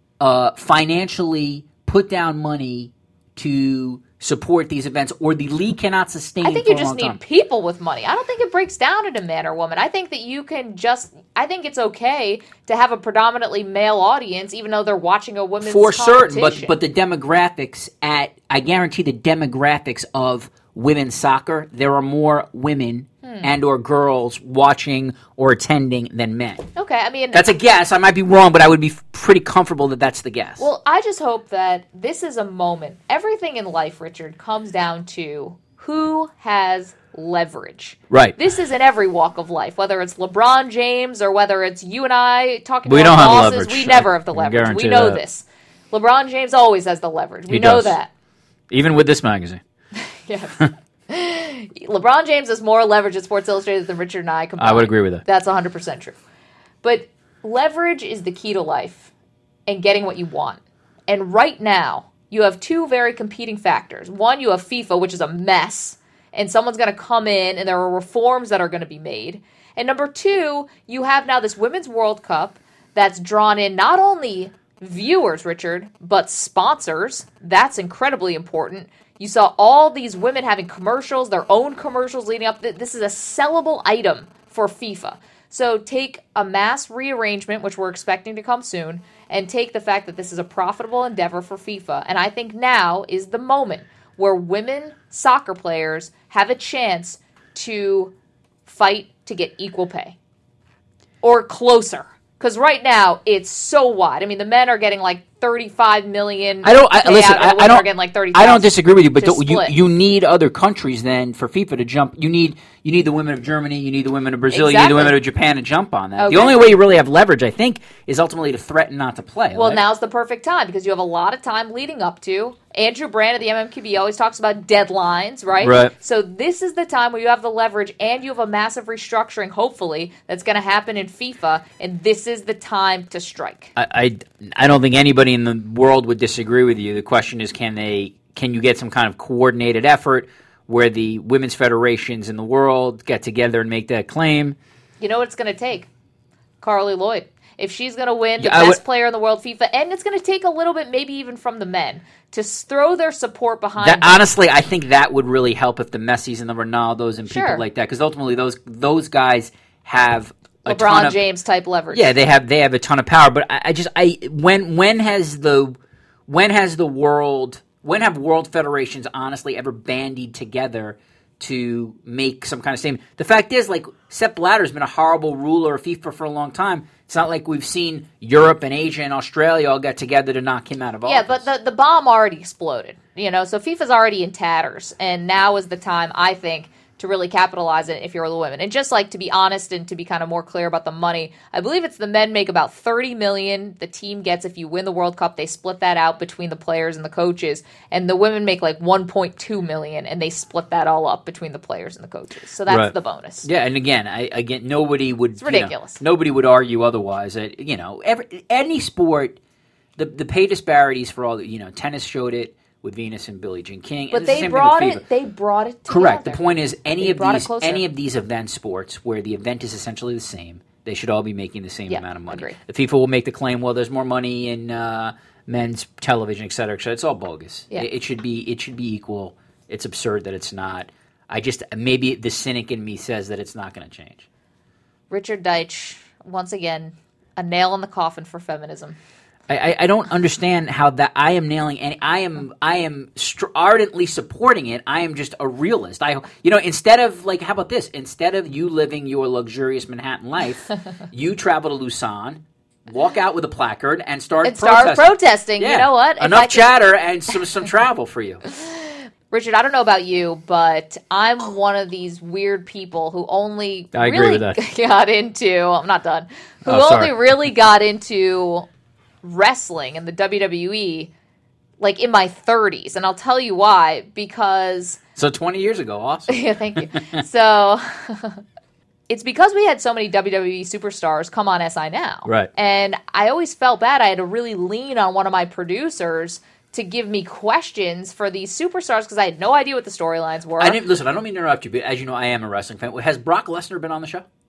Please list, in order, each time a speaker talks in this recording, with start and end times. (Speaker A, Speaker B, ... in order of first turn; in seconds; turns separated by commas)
Speaker A: 0.2-7.2, Speaker B: 6.4-16.7, Speaker A: 15.6-26.7, Speaker B: 26.8-27.5, Speaker A: 27.3-30.7, Speaker B: 30.6-48.1, Speaker A: 38.1-38.4, Speaker A: 42.9-45.2, Speaker A: 47.5-48.0, Speaker A: 48.7-49.6, Speaker B: 50.0-56.2, Speaker A: 54.6-55.2, Speaker B: 56.8-59.1, Speaker B: 59.7-98.1, Speaker B: 98.7-100.2, Speaker B: 101.2-109.7, Speaker A: 106.6-119.8, Speaker B: 114.5-115.2, Speaker B: 116.2-116.6, Speaker B: 119.5-133.7, Speaker A: 125.6-125.9, Speaker A: 133.8-144.6, Speaker B: 145.0-145.9, Speaker B: 146.6-154.2, Speaker A: 148.4-148.8, Speaker A: 153.8-161.2, Speaker B: 157.3-157.6, Speaker B: 160.7-162.1, Speaker A: 161.9-165.8, Speaker A: 166.3-181.4, Speaker B: 181.1-203.5, Speaker A: 202.7-209.4, Speaker B: 205.4-206.0, Speaker A: 210.0-215.0, Speaker B: 214.1-216.4, Speaker A: 215.9-234.3, Speaker B: 217.0-217.8, Speaker B: 221.9-222.6, Speaker B: 235.1-239.0, Speaker A: 239.5-258.4, Speaker B: 254.4-256.7, Speaker B: 258.6-268.7, Speaker A: 263.9-264.6, Speaker A: 266.7-267.2, Speaker B: 269.2-271.1, Speaker B: 271.8-275.0, Speaker A: 275.2-277.2, Speaker B: 276.3-278.4, Speaker B: 279.1-290.8, Speaker A: 290.6-294.2